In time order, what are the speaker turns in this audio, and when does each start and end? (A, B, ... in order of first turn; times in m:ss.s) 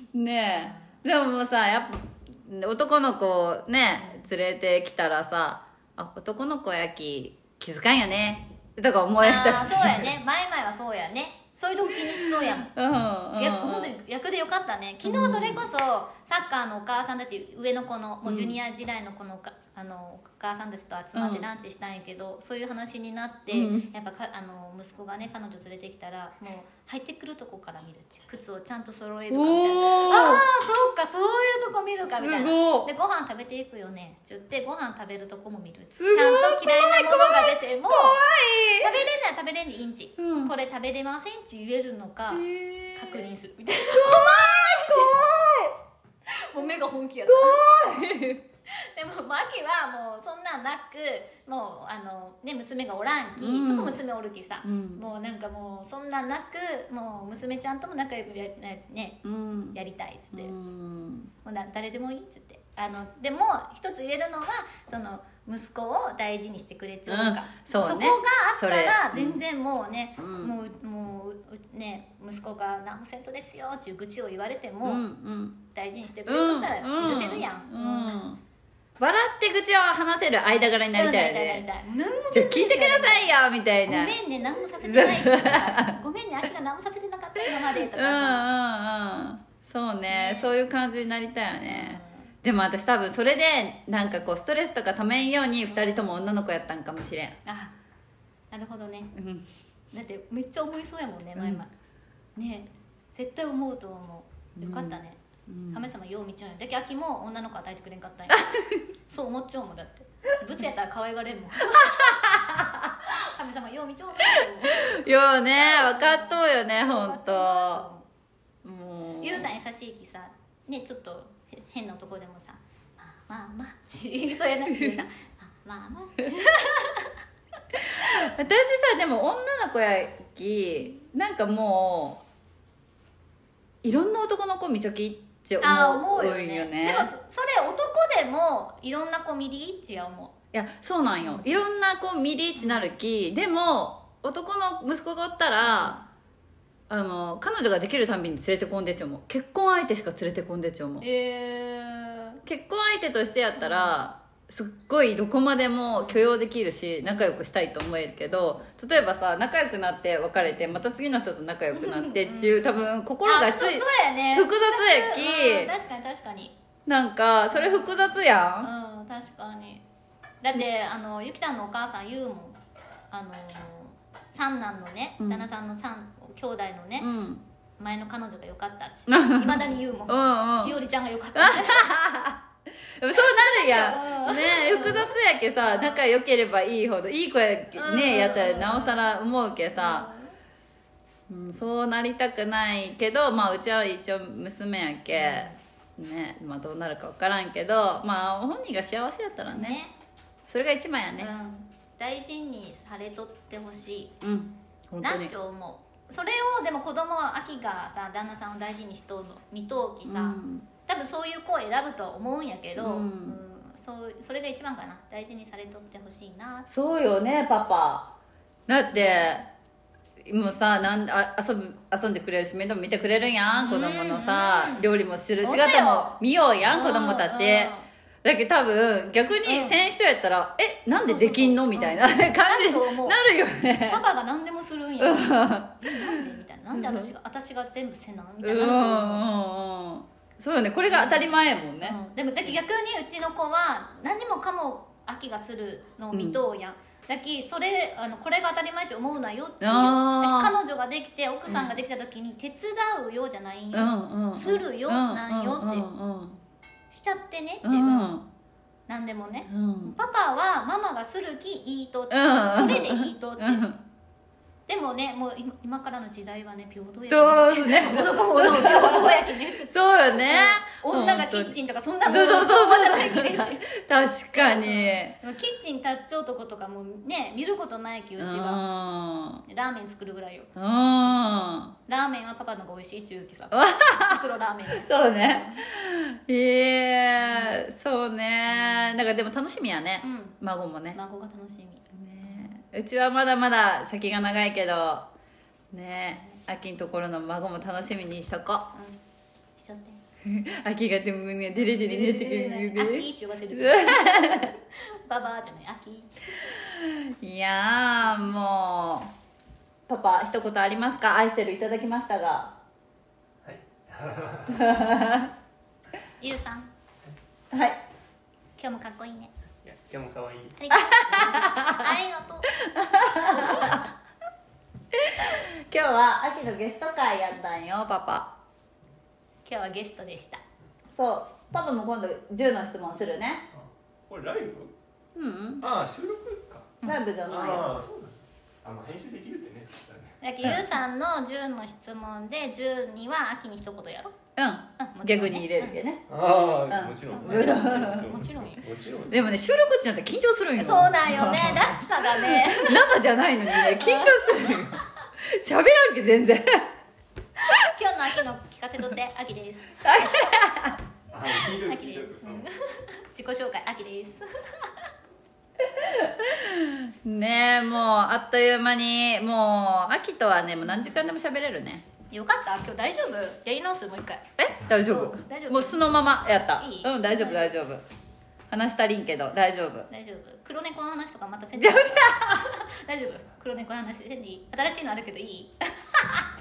0:00.1-0:10.1 A
0:00.5-0:01.0 B
0:09.2-0:12.7 B
0:12.2-0:13.9 A
0:13.4-0:38.2 B
0:15.0-0:15.6 A
0:18.2-0:18.6 A
0:21.1-0:21.5 A
0:23.5-0:23.9 A
0:29.3-0:30.4 A
0:32.1-0:32.9 A
0:35.9-0:39.0 A
0:38.8-0:45.3 B
0:40.2-0:40.5 A
0:42.3-0:43.3 A
0:43.9-0:45.7 A
0:46.3-0:47.7 B
0:47.2-0:48.4 A
0:48.7-0:59.2 B
0:53.4-0:54.0 A
0:54.6-0:55.0 A
0:59.2-0:59.8 A
0:59.7-1:00.5 B
1:00.3-1:01.3 A
1:01.4-1:15.0 B
1:07.1-1:09.4 A
1:10.2-1:10.5 A
1:14.8-1:15.6 A
1:15.7-1:18.2 B
1:16.2-1:18.4 A
1:19.0-1:21.6 A
1:20.9-1:28.5 B
1:22.3-1:24.2 A
1:24.8-1:26.0 A
1:27.8-1:37.4 A
1:30.1-1:30.5 B
1:31.6-1:32.3 B
1:37.4-1:37.7 B
1:38.5-1:39.1 B
1:39.1-1:39.4 A
1:39.9-1:41.7 B
1:41.4-1:41.6 A
1:42.4-1:45.2 B
1:44.6-1:45.9 A
1:45.7-1:48.5 B
1:48.3-1:48.8 A
1:49.1-1:52.4 B
1:51.8-1:52.7 A
1:53.0-1:55.0 B
1:54.3-1:57.8 A
1:55.5-1:58.1 B
1:58.6-1:59.5 A
1:59.2-2:07.2 B
2:04.7-2:05.0 A
2:07.8-2:12.2 A
2:13.8-2:17.1 A
2:15.6-2:20.3 B
2:20.5-2:26.0 A
2:21.2-2:21.6 B
2:22.6-2:22.9 B
2:25.6-2:26.0 B
2:26.9-2:31.0 A
2:31.0-2:32.4 B
2:32.4-2:45.7 A
2:33.6-2:34.0 B
2:36.0-2:36.3 B
2:37.0-2:37.4 B
2:38.2-2:38.6 B
2:40.4-2:40.8 B
2:41.7-2:46.5 B
2:46.8-2:48.7 A
2:47.5-2:49.8 B
2:50.4-2:52.6 B
2:53.1-2:57.1 B
2:55.2-2:55.5 A
2:57.0-2:57.4 A
2:57.8-3:02.0 B
2:59.1-3:00.8 A
3:01.3-3:02.4 A
3:03.0-3:10.1 A
3:03.1-3:05.1 B
3:05.6-3:06.0 B
3:07.7-3:09.0 B
3:09.7-3:10.3 B
3:11.3-3:19.8 A
3:15.1-3:15.6 B
3:19.4-3:19.9 B
3:20.5-3:21.3 A
3:21.2-3:24.2 B
3:24.2-3:25.3 A
3:25.0-3:36.7 B
3:30.0-3:30.7 A
3:32.8-3:33.4 A
3:36.7-3:38.1 A
3:38.7-3:39.5 A
3:39.0-3:39.3 B
3:40.2-3:54.0 A
3:43.5-3:47.9 B
3:49.4-3:49.8 B
3:50.9-3:53.2 B
3:53.8-3:59.4 B
3:55.0-3:56.1 A
3:56.7-3:57.1 A
3:58.4-4:02.6 A
4:00.9-4:15.9 B
4:06.1-4:06.4 A
4:09.6-4:10.6 A
4:13.7-4:16.4 A
4:16.9-4:18.2 B
4:17.6-4:18.2 A
4:18.9-4:23.7 B
4:19.5-4:20.0 A
4:22.1-4:23.8 A
4:24.7-4:33.7 B
4:27.1-4:35.2 A
4:34.3-4:38.6 B
4:38.2-4:39.4 A
4:39.4-4:40.5 B
4:40.6-4:41.7 A
4:41.8-4:45.6 B
4:43.5-4:44.2 A
4:44.8-4:51.0 A
4:47.2-4:47.6 B
4:48.5-4:49.0 B
4:50.0-4:50.4 B
4:50.9-4:52.5 B
4:51.9-4:55.1 A
4:55.7-4:58.7 A
4:58.7-4:59.0 B
4:59.6-5:00.0 B
5:00.2-5:04.5 A
5:01.6-5:06.7 B
5:06.7-5:09.1 A
5:09.9-5:12.5 A
5:13.4-5:14.9 C
5:14.7-5:15.3 A
5:16.2-5:16.7 B
5:17.5-5:17.8 A
5:18.6-5:19.3 B
5:19.6-5:20.6 C
5:20.6-5:22.5 B
5:20.7-5:21.9 A
5:22.6-5:23.8 A
5:23.2-5:23.8 B
5:24.9-5:28.3 A
5:29.4-5:30.4 B
5:30.9-5:33.4 A
5:33.5-5:34.7 C
5:35.1-5:35.6 A
5:35.6-5:36.7 C
5:36.8-5:37.1 B
5:36.8-5:37.7 A
5:37.3-5:40.2 C
5:40.2-5:44.1 B
5:44.4-5:46.1 A
5:44.8-5:45.8 B
5:46.1-5:49.3 C
5:46.7-5:48.1 A
5:47.1-5:48.6 B
5:49.1-5:56.7 A
5:50.6-5:52.8 B
5:53.5-5:54.9 B
5:57.5-6:00.4 B
5:59.8-6:00.8 A
6:01.1-6:02.4 C
6:01.6-6:04.8 B
6:05.7-6:11.8 A
6:10.6-6:10.9 B
6:12.1-6:14.2 B
6:14.4-6:17.8 A
6:14.8-6:15.9 B
6:16.5-6:17.6 B
6:18.5-6:19.9 A
6:19.9-6:26.3 B
6:21.6-6:22.5 A